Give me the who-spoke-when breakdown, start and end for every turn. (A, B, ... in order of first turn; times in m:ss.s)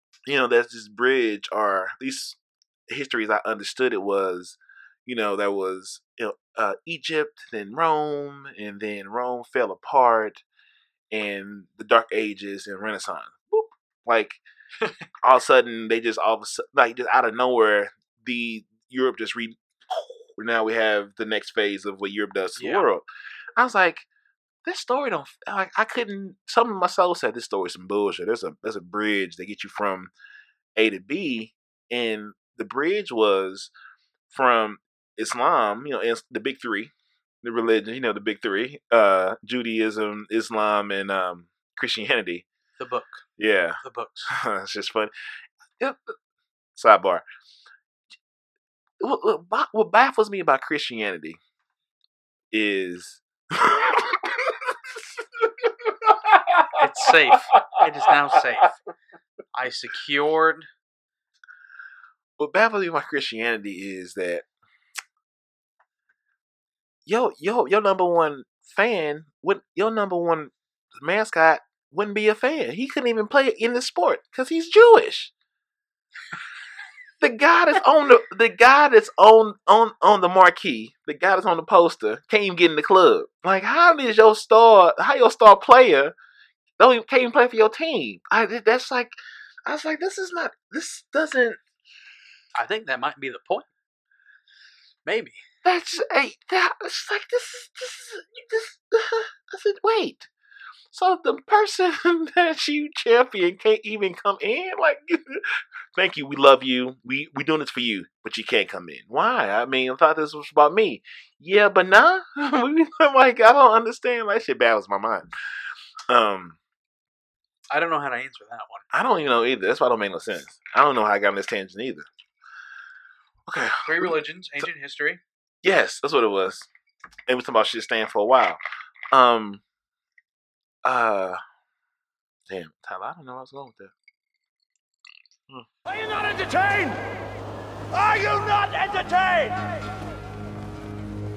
0:00.3-0:02.4 A
0:02.9-0:10.4 A
0:11.1-0:14.4 A
0:15.2-0:23.0 A
0:22.6-0:22.8 B
0:23.6-0:24.1 A
0:24.6-0:30.1 A
0:30.8-0:33.7 A
0:34.3-0:36.9 A
0:37.4-0:42.4 A
0:42.8-0:43.2 B
0:43.4-0:45.1 A
0:43.8-0:44.3 B
0:45.8-0:46.1 A
0:46.7-0:47.2 A
0:49.0-0:51.4 A
0:52.5-0:54.7 A
0:55.4-0:57.8 A
0:56.8-0:58.7 B
0:59.5-1:00.7 B
1:02.4-1:04.4 A
1:07.0-1:15.3 A
1:17.2-1:26.1 A
1:26.8-1:31.6 A
1:32.5-1:33.7 B
1:35.0-1:35.4 B
1:35.6-1:40.3 A
1:40.9-1:55.2 A
1:56.1-1:56.6 A
1:57.7-1:58.8 B
1:58.9-2:02.0 A
2:03.4-2:04.1 A
2:03.8-2:05.2 B
2:05.6-2:06.7 A
2:07.3-2:08.6 A
2:09.1-2:09.6 A
2:10.8-2:11.4 A
2:12.5-2:13.9 A
2:15.9-2:17.0 C
2:17.9-2:19.7 C